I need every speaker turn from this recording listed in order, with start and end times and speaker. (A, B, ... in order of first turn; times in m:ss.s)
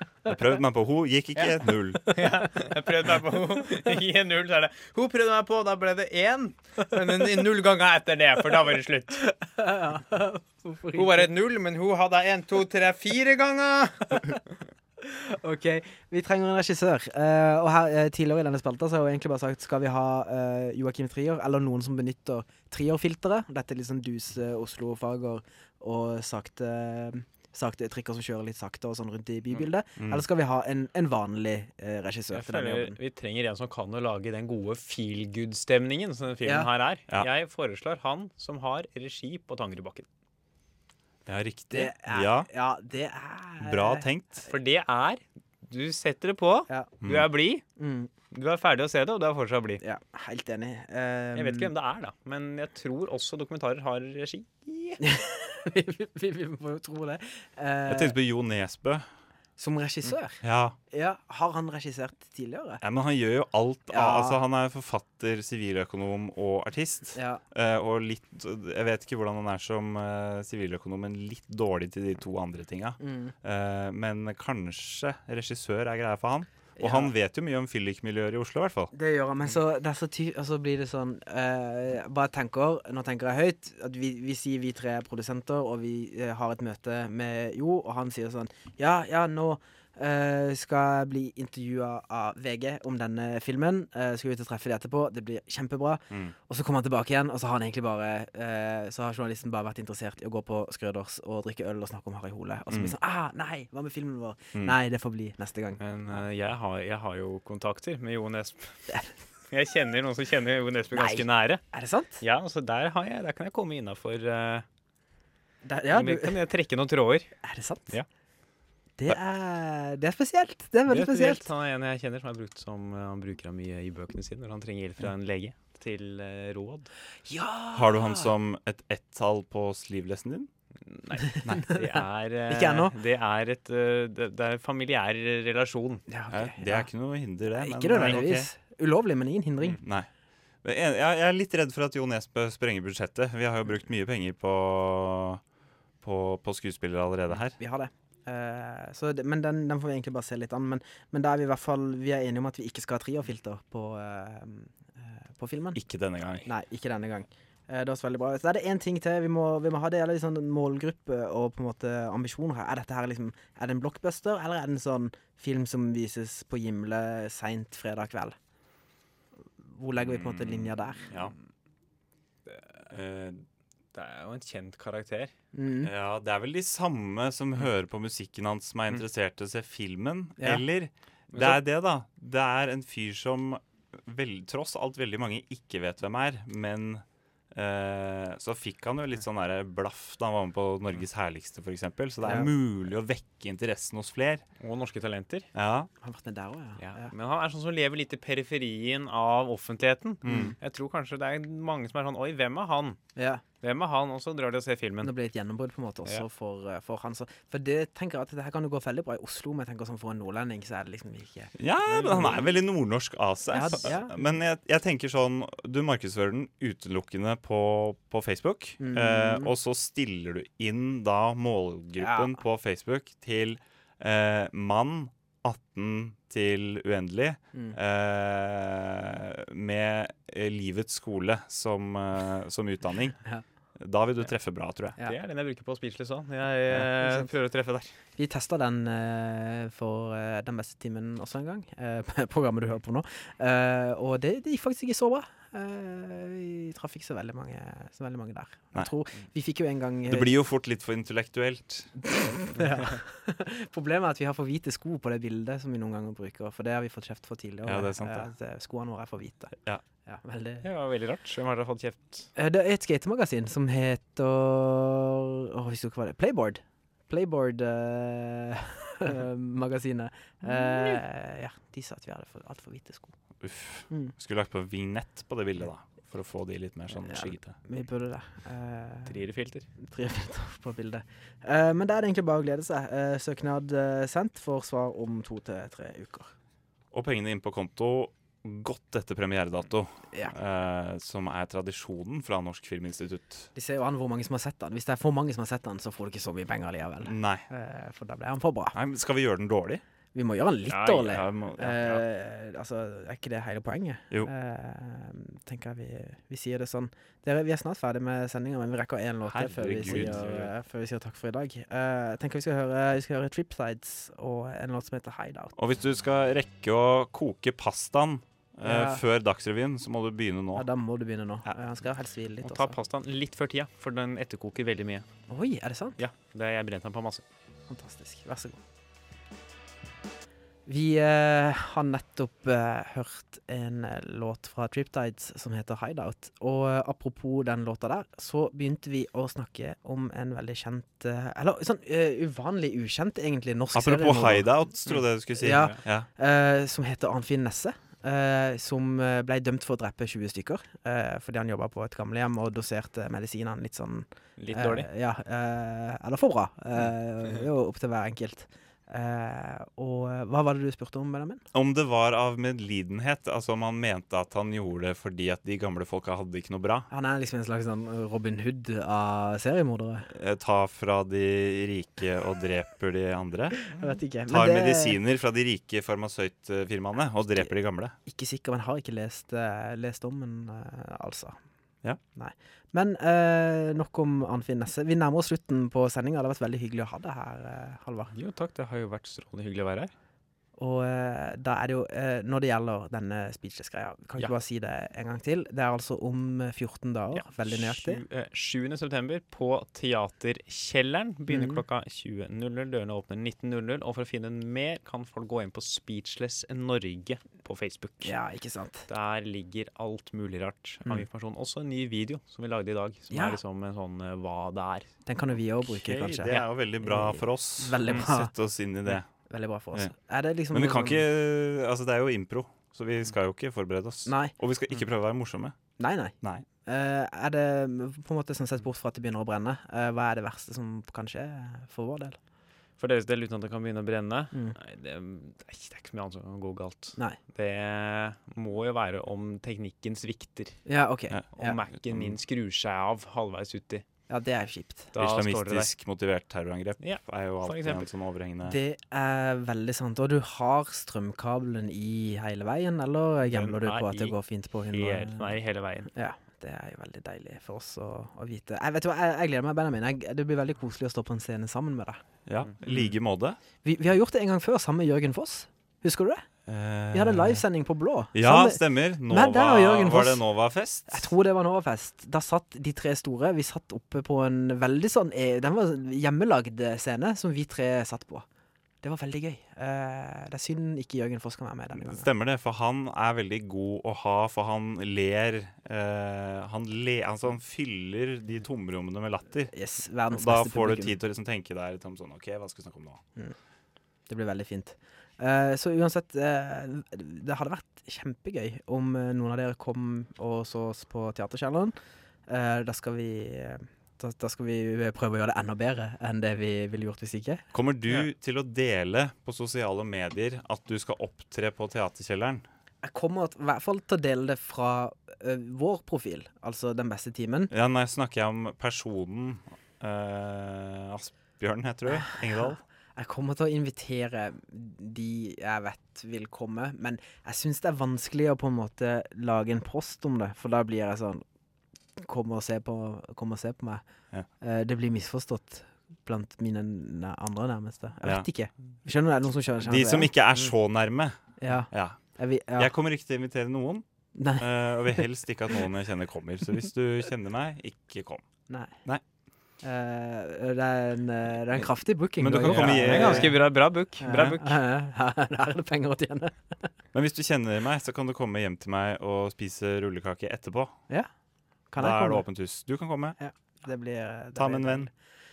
0:00.2-0:02.1 A
0:02.1-0:09.2 B
0:09.3-0:11.3 C
0:10.9-0:14.4 B
0:15.0-0:33.0 C
0:30.0-0:30.2 A
0:32.3-0:40.0 B
0:41.3-0:42.5 A
0:41.7-0:44.0 C
0:43.6-0:44.5 A
0:44.5-0:47.6 B
0:47.0-0:47.3 A
0:47.8-0:48.1 C
0:48.3-0:49.8 B
0:49.8-0:51.7 C
0:51.3-0:55.0 B
0:55.0-0:58.2 C
0:57.8-0:59.0 A
0:59.6-1:02.8 C
1:00.4-1:00.8 A
1:02.8-1:18.9 A
1:03.9-1:04.4 C
1:07.1-1:07.4 C
1:13.0-1:13.3 C
1:16.8-1:17.1 C
1:18.9-1:45.8 C
1:42.7-1:43.0 A
1:45.8-1:48.8 B
1:49.5-1:51.6 B
1:50.9-1:52.2 C
1:52.2-1:54.6 B
1:55.6-1:56.4 C
1:55.9-1:57.3 B
1:57.4-1:57.9 C
1:59.0-2:01.5 C
2:00.9-2:06.9 B
2:07.2-2:08.3 C
2:07.7-2:10.5 A
2:10.8-2:16.0 B
2:11.4-2:11.7 A
2:11.7-2:13.0 C
2:16.1-2:16.9 C
2:16.3-2:18.5 A
2:17.5-2:19.8 C
2:19.8-2:20.1 A
2:20.6-2:25.4 A
2:26.0-2:27.6 A
2:27.6-2:35.8 C
2:35.7-2:36.5 A
2:36.4-2:48.3 C
2:49.6-2:51.0 C
2:50.0-2:51.3 A
2:52.5-2:52.7 B
2:52.9-2:53.4 A
2:53.9-2:55.3 B
2:55.5-2:55.9 C
2:55.8-3:14.4 A
3:01.3-3:01.6 B
3:12.2-3:12.5 C
3:14.6-3:15.5 B
3:15.5-3:15.9 A
3:16.0-3:17.1 C
3:16.8-3:23.0 B
3:20.2-3:20.5 A
3:20.2-3:20.6 C
3:23.2-3:23.4 C
3:23.6-3:25.1 B
3:25.0-3:31.5 C
3:31.6-3:53.2 A
3:31.9-3:32.5 B
3:33.5-3:34.2 C
3:38.8-3:39.5 C
3:42.0-3:42.4 C
3:53.8-3:55.0 A
3:55.0-3:57.9 B
3:56.7-3:57.3 C
3:58.2-4:10.4 C
4:10.0-4:11.9 A
4:12.0-4:19.5 C
4:17.6-4:18.3 A
4:20.0-4:20.6 C
4:20.6-4:22.3 B
4:22.4-4:33.1 C
4:30.5-4:31.0 B
4:33.4-4:37.6 A
4:36.9-4:39.2 C
4:39.0-4:39.7 B
4:39.8-4:46.3 C
4:46.9-4:53.5 A
4:53.5-4:58.8 C
4:57.0-4:57.4 A
4:58.7-4:59.8 A
5:00.1-5:15.5 C
5:00.7-5:02.0 A
5:09.2-5:10.3 A
5:09.9-5:10.5 B
5:15.6-5:20.7 A
5:18.6-5:19.0 C
5:20.6-5:22.7 C
5:22.4-5:25.0 B
5:25.3-5:26.0 C
5:26.0-5:27.2 B
5:27.7-5:28.6 C
5:30.7-5:44.6 C
5:43.7-5:46.1 A
5:44.9-5:45.8 B
5:45.4-6:01.4 C
5:54.4-5:54.9 B
6:01.5-6:06.9 A
6:06.9-6:10.1 C
6:10.1-6:13.6 A
6:13.7-6:15.0 C
6:14.3-6:18.0 A
6:18.0-6:21.4 C
6:22.2-6:28.1 C
6:28.1-6:29.9 B
6:30.6-6:38.0 C
6:37.1-6:48.1 B
6:41.3-6:41.6 C
6:48.0-6:48.9 C
6:48.9-6:54.9 B
6:53.1-6:53.4 C
6:55.0-6:58.3 C
6:55.6-6:59.0 A
6:58.9-7:01.0 C
7:00.5-7:05.6 A
7:04.0-7:04.3 C
7:05.8-7:12.2 C
7:12.8-7:20.6 B
7:14.3-7:14.6 C
7:20.6-7:21.6 C
7:21.4-7:23.8 B
7:21.8-7:22.1 A
7:24.1-7:24.9 C
7:24.9-7:25.7 B
7:25.0-7:28.6 A
7:26.8-7:27.9 B
7:28.4-7:35.3 C
7:33.2-7:34.2 B
7:34.7-7:35.9 B
7:35.9-7:42.0 C
7:42.2-7:43.4 A
7:43.6-7:46.2 C
7:46.5-7:47.4 A
7:46.9-7:50.2 C
7:48.1-7:51.1 A
7:50.9-7:58.2 C
7:58.8-8:02.0 C
8:01.8-8:09.5 A
8:09.5-8:11.0 C
8:10.1-8:13.0 A
8:14.1-8:21.7 C
8:22.3-8:27.4 C
8:27.5-8:32.4 A
8:32.8-8:37.5 C
8:37.5-8:42.6 A
8:41.9-8:51.2 C
8:52.0-8:53.8 C
8:54.4-9:00.1 C
8:59.6-9:01.2 A
9:01.4-9:02.7 C
9:01.7-9:02.0 A
9:02.6-9:03.8 A
9:04.2-9:05.0 C
9:04.4-9:08.2 A
9:08.5-9:08.7 C
9:09.6-9:13.4 C
9:12.2-9:13.3 A
9:12.5-9:14.6 B
9:14.0-9:16.7 C
9:16.9-9:20.8 A
9:21.7-9:22.2 C
9:21.8-9:23.2 A
9:23.2-9:24.9 C
9:24.4-9:24.9 A